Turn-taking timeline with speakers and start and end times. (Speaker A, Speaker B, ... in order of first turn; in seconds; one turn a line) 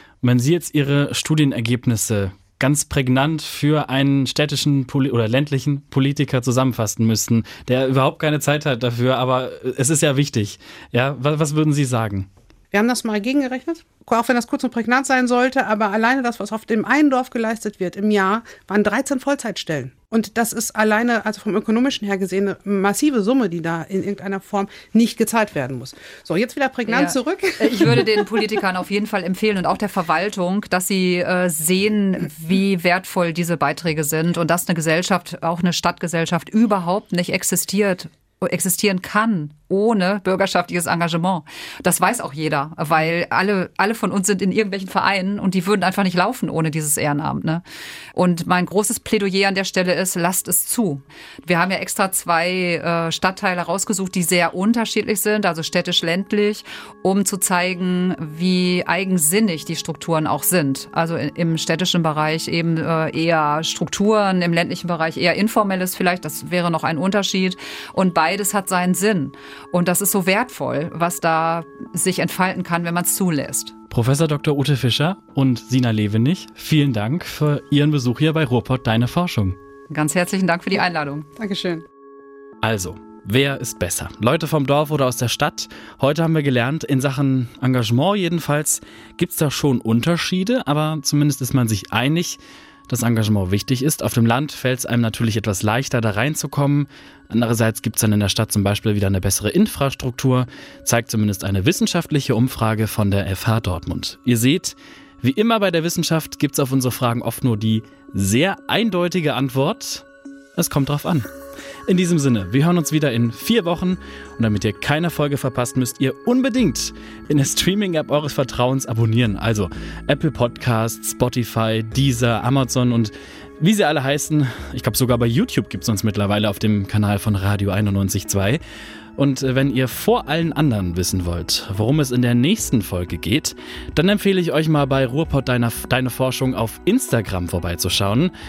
Speaker A: 0.2-12.3
Speaker B: 12.7-28.4
Speaker C: 26.9-47.6
Speaker C: 48.1-73.7
Speaker A: 73.9-79.5
Speaker C: 79.9-81.3
Speaker B: 81.4-81.8
Speaker A: 82.6-110.0
Speaker A: 110.5-111.3
Speaker A: 111.9-128.6
Speaker A: 129.2-138.3